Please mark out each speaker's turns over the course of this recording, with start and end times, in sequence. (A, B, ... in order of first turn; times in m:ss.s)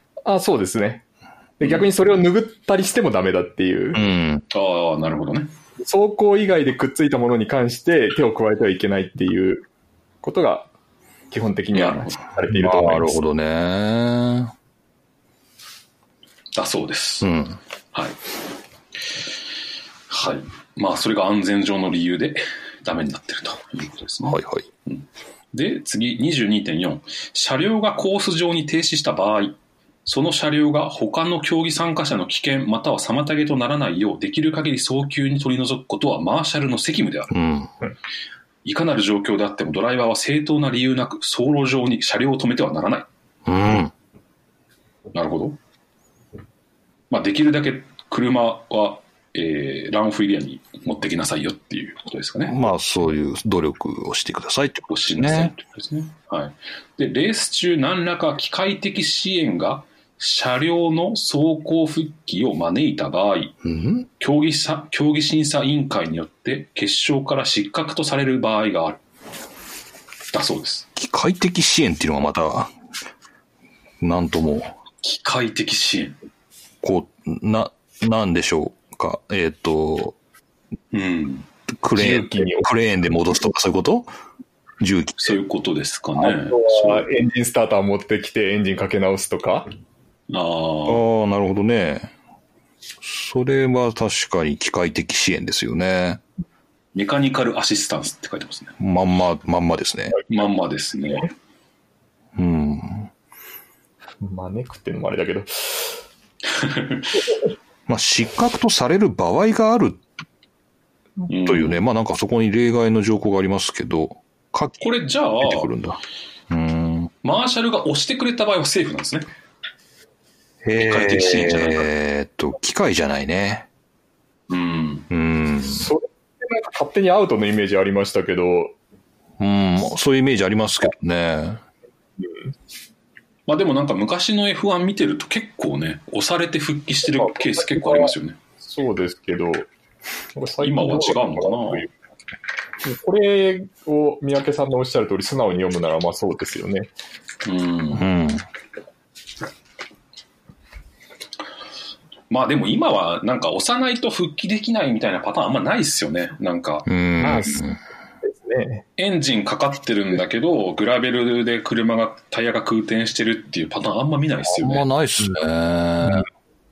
0:00.3-0:01.0 A
0:01.6-0:04.0 A
0:03.9-0:04.4 B
0:04.5-0:05.5 C
0:05.8-0:09.7 A
0:10.2-0:10.7 A
0:11.3-0:13.2 A
0:11.7-0:12.2 C
0:12.5-0:14.5 B
0:16.6-0:17.3 C
0:17.2-0:17.6 B
0:20.1-0:24.4 C
0:24.2-0:24.7 B
0:25.5-0:29.5 C
0:30.1-0:37.3 C
0:37.3-0:37.7 B
0:38.7-0:43.0 C
0:43.5-0:43.9 B
0:45.2-0:45.6 C
0:47.1-0:52.6 C
0:52.5-0:55.5 B
0:54.9-1:03.5 C
1:03.6-1:04.1 B
1:04.2-1:09.0 C
1:10.3-1:10.8 C
1:11.0-1:12.7 B
1:14.0-1:14.7 B
1:15.0-1:16.2 C
1:16.8-1:20.2 B
1:20.9-1:21.4 C
1:21.7-1:24.1 B
1:21.9-1:22.7 A
1:24.8-1:25.4 B
1:25.3-1:27.0 C
1:26.2-1:29.7 A
1:30.3-1:31.0 C
1:30.9-1:32.1 B
1:33.0-1:36.2 B
1:37.0-1:38.7 C
1:38.8-1:40.2 B
1:40.3-1:41.3 C
1:42.4-1:43.1 B
1:44.2-1:45.9 A
1:46.6-1:47.1 C
1:47.9-1:50.0 B
1:51.3-1:51.8 C
1:51.4-1:54.9 B
1:54.8-1:55.7 C
1:55.4-1:57.1 B
1:57.2-1:59.3 C
2:00.6-2:03.7 B
2:00.8-2:01.9 C
2:04.5-2:05.1 C
2:05.1-2:05.9 B
2:05.7-2:08.7 A
2:09.4-2:11.6 B
2:13.5-2:18.4 C
2:17.1-2:18.1 A
2:18.6-2:19.7 A
2:20.4-2:21.9 A
2:20.6-2:21.9 C
2:22.8-2:26.9 A
2:27.4-2:28.0 C
2:27.9-2:28.4 B
2:32.3-2:36.9 C
2:36.9-2:37.8 B
2:37.2-2:37.6 A
2:38.2-2:38.8 A
2:39.0-2:44.9 C
2:44.5-2:46.3 B